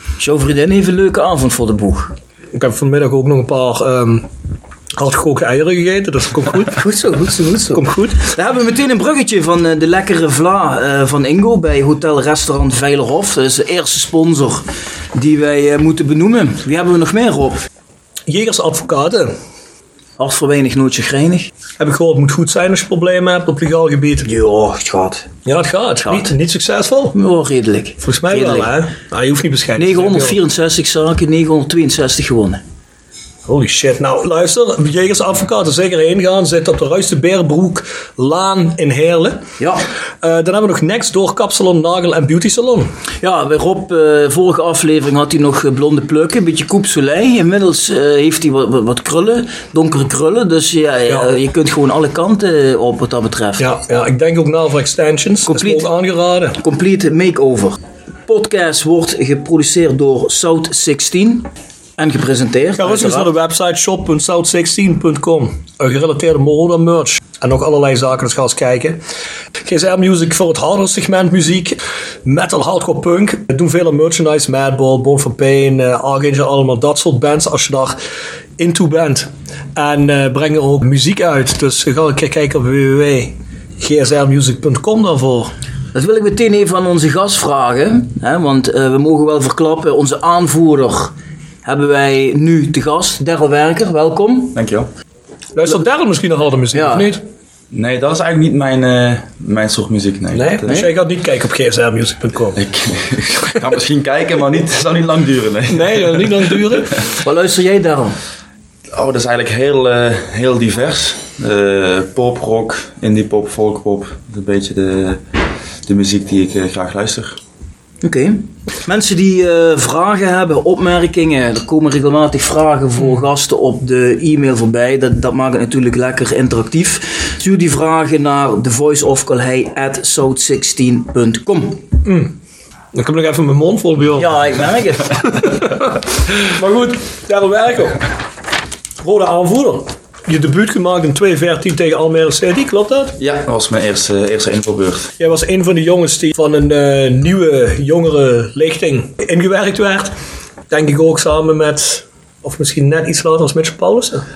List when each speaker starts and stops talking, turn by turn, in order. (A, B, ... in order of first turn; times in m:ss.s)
0:00.2-0:02.1 A
0:02.5-0:04.3 B
0:05.0-0:08.3 B
0:08.2-0:17.6 A
0:18.3-0:19.3 B
0:20.2-0:21.5 A
0:21.8-0:24.3 B
0:24.2-0:25.3 A
0:25.4-0:27.1 B
0:27.1-0:28.7 A
0:28.0-0:30.4 B
0:29.8-0:32.6 A
0:33.5-0:39.4 B
0:39.6-0:39.8 A
0:40.2-0:42.9 B
0:43.2-0:53.7 A
0:53.6-0:56.6 B
0:55.5-0:55.9 A
0:56.6-1:03.3 A
1:02.8-1:09.0 B
1:09.6-1:18.0 B
1:18.6-1:25.5 B
1:25.9-1:31.1 A
1:31.6-1:34.6 A
1:34.5-1:34.9 C
1:35.6-1:37.2 B
1:36.7-1:37.1 A
1:37.7-1:40.8 C
1:40.3-1:42.6 B
1:42.6-1:47.0 C
1:45.7-1:47.0 B
1:47.2-1:48.2 A
1:48.9-1:55.2 C
1:55.8-1:57.4 C
1:58.0-2:11.8 A
2:12.0-2:12.3 B
2:12.9-2:14.3 B
2:14.2-2:15.4 A
2:15.4-2:18.1 B
2:19.0-2:23.2 B
2:23.2-2:25.1 C
2:25.2-2:30.1 B
2:30.7-2:34.2 B